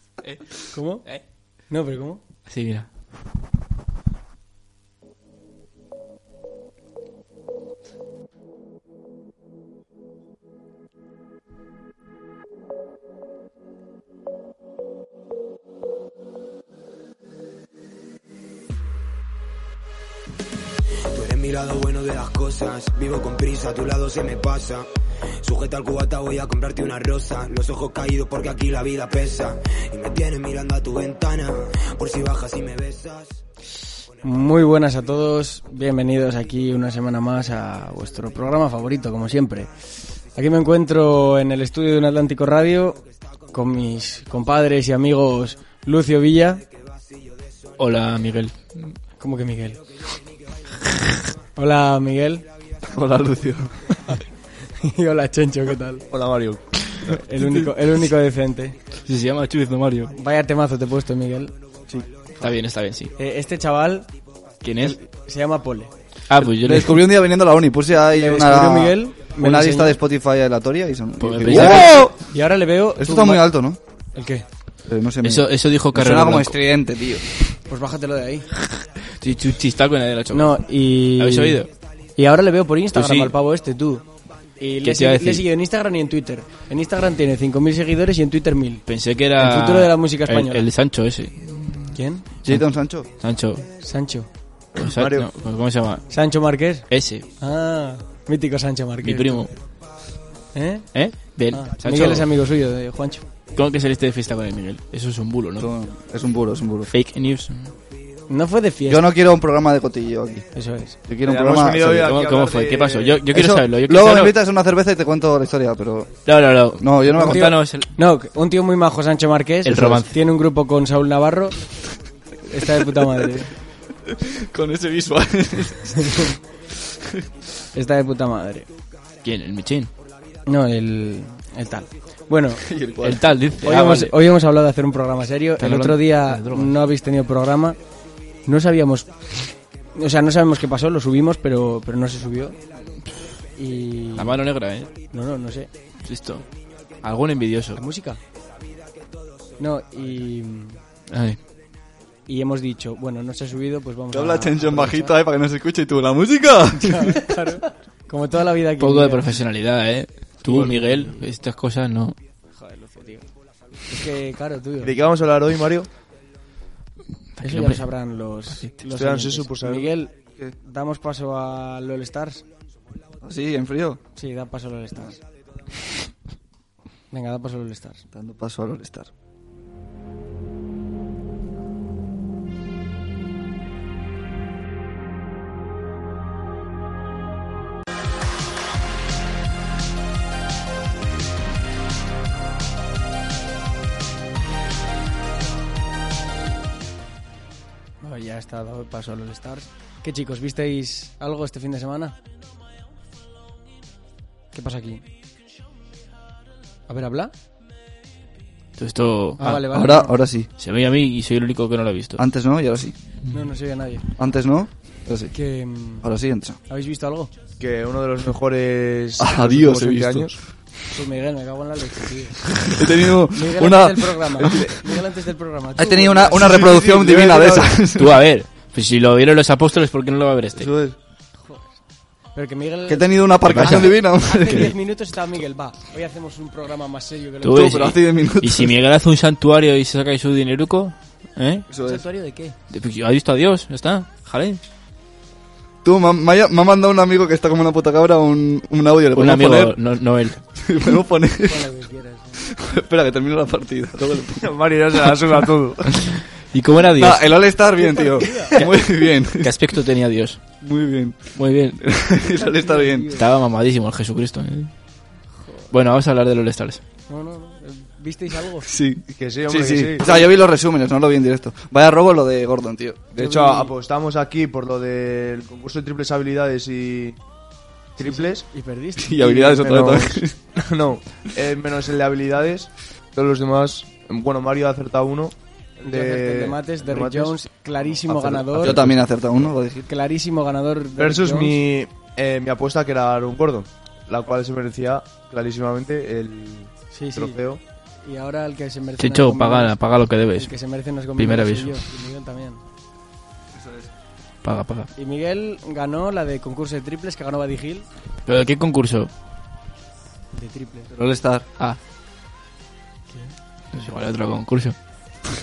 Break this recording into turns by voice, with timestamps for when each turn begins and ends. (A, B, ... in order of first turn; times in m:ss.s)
0:00.7-0:01.0 A
0:01.7-0:02.2 A
0:02.5-0:02.9 B
0:21.1-0:24.9 C
0:25.4-0:33.4 C
0:34.2-0:39.7 A
0:40.3-0:46.6 A
0:47.8-0:49.0 B
0:49.2-0:49.8 A
0:51.6-0:52.4 A
0:52.9-0:54.0 D
0:54.7-0:56.1 A
0:56.1-0:57.2 E
0:57.2-0:58.8 A
0:59.0-1:00.1 B
1:00.1-1:01.5 A
1:02.4-1:03.1 B
1:03.2-1:04.1 A
1:04.6-1:05.0 B
1:04.8-1:05.9 A
1:06.3-1:07.1 B
1:06.4-1:12.2 D
1:08.1-1:10.0 A
1:11.2-1:12.0 B
1:11.6-1:13.5 A
1:13.0-1:13.8 D
1:14.1-1:14.4 A
1:14.8-1:17.2 D
1:15.2-1:16.6 B
1:17.7-1:18.5 A
1:19.1-1:20.6 B
1:20.3-1:21.6 A
1:21.2-1:21.7 B
1:22.2-1:24.0 A
1:22.9-1:23.3 B
1:24.6-1:28.8 A
1:24.8-1:25.4 B
1:28.9-1:33.7 B
1:29.4-1:30.7 A
1:31.9-1:32.2 A
1:32.4-1:33.1 D
1:33.8-1:34.3 A
1:34.7-1:35.3 E
1:34.7-1:36.0 B
1:36.1-1:36.9 A
1:36.9-1:37.2 B
1:37.4-1:39.5 A
1:39.0-1:39.5 B
1:40.5-1:43.2 A
1:40.9-1:42.3 B
1:43.5-1:45.7 B
1:45.6-1:46.9 D
1:46.9-1:47.7 B
1:48.3-1:49.1 A
1:48.9-1:50.5 D
1:50.5-1:51.0 A
1:51.0-1:52.1 D
1:51.2-1:53.2 E
1:51.8-1:54.3 B
1:53.3-1:57.6 D
1:56.2-1:57.9 B
1:57.1-2:01.6 A
1:59.6-2:00.1 B
2:02.5-2:03.5 A
2:04.1-2:06.3 D
2:07.7-2:08.7 A
2:09.2-2:09.9 B
2:10.4-2:12.7 A
2:12.5-2:13.2 D
2:13.0-2:14.1 B
2:13.6-2:17.8 A
2:15.6-2:16.8 B
2:18.4-2:22.6 A
2:23.6-2:24.4 A
2:24.2-2:24.9 B
2:25.1-2:25.7 A
2:26.0-2:26.4 B
2:27.0-2:27.8 B
2:27.7-2:28.2 A
2:29.6-2:30.8 A
2:31.1-2:31.4 B
2:32.3-2:35.2 A
2:34.1-2:37.2 D
2:36.8-2:39.3 A
2:38.8-2:42.2 B
2:40.5-2:41.2 A
2:42.5-2:43.2 A
2:43.9-2:44.9 A
2:44.8-2:45.9 E
2:47.4-2:47.8 B
2:47.4-2:52.4 A
2:48.8-2:49.9 E
2:53.2-2:54.0 D
2:54.1-2:55.2 A
2:57.1-2:58.0 A
2:58.1-2:59.1 D
3:18.0-3:22.2 A
3:24.5-3:25.0 A
3:26.9-3:27.3 A
3:28.8-3:29.8 B
3:29.4-3:30.2 A
3:29.7-3:30.5 D
3:30.6-3:32.2 B
3:32.2-3:33.0 D
3:33.3-3:34.0 A
3:34.2-3:35.3 D
3:35.3-3:36.1 A
3:36.0-3:36.6 D
3:36.7-3:37.3 A
3:37.6-3:40.4 E
3:39.2-3:40.3 D
3:40.9-3:42.6 A
3:42.7-3:44.8 D
3:43.3-3:46.6 A
3:45.8-3:48.2 D
3:46.4-3:47.8 E
3:47.9-3:50.7 B
3:50.6-3:51.0 D
3:51.4-3:51.7 A
3:52.3-3:57.8 A
3:52.9-3:54.7 D
3:53.4-3:54.7 B
3:57.4-4:01.6 B
3:57.5-3:58.7 D
4:01.7-4:02.0 D
4:01.7-4:02.6 A
4:02.7-4:04.6 B
4:05.8-4:09.8 D
4:09.1-4:10.4 B
4:10.5-4:11.8 D
4:11.4-4:12.5 A
4:12.4-4:14.7 D
4:14.4-4:16.2 E
4:16.5-4:17.3 B
4:16.9-4:19.6 D
4:17.8-4:18.6 A
4:18.6-4:20.4 B
4:20.6-4:23.1 D
4:21.4-4:21.9 B
4:22.3-4:23.2 A
4:23.1-4:24.7 B
4:25.4-4:25.7 A
4:25.7-4:26.8 B
4:27.1-4:28.7 A
4:28.6-4:33.2 D
4:29.1-4:30.1 E
4:33.2-4:33.7 A
4:33.2-4:37.2 E
4:38.0-4:38.5 E
4:38.0-4:39.8 A
4:39.0-4:40.4 D
4:39.4-4:47.4 E
4:45.8-4:48.8 A
4:47.9-4:48.8 E
4:48.6-4:49.9 D
4:49.9-4:51.5 A
4:51.0-4:57.6 E
4:56.9-4:57.4 A
4:58.0-4:59.8 A
4:59.0-5:00.5 B
5:00.3-5:02.6 A
5:01.2-5:01.8 B
5:03.5-5:03.9 D
5:04.4-5:04.9 B
5:05.0-5:07.9 A
5:08.2-5:09.1 B
5:10.3-5:10.9 A
5:10.9-5:11.4 D
5:13.1-5:13.9 A
5:13.7-5:14.8 B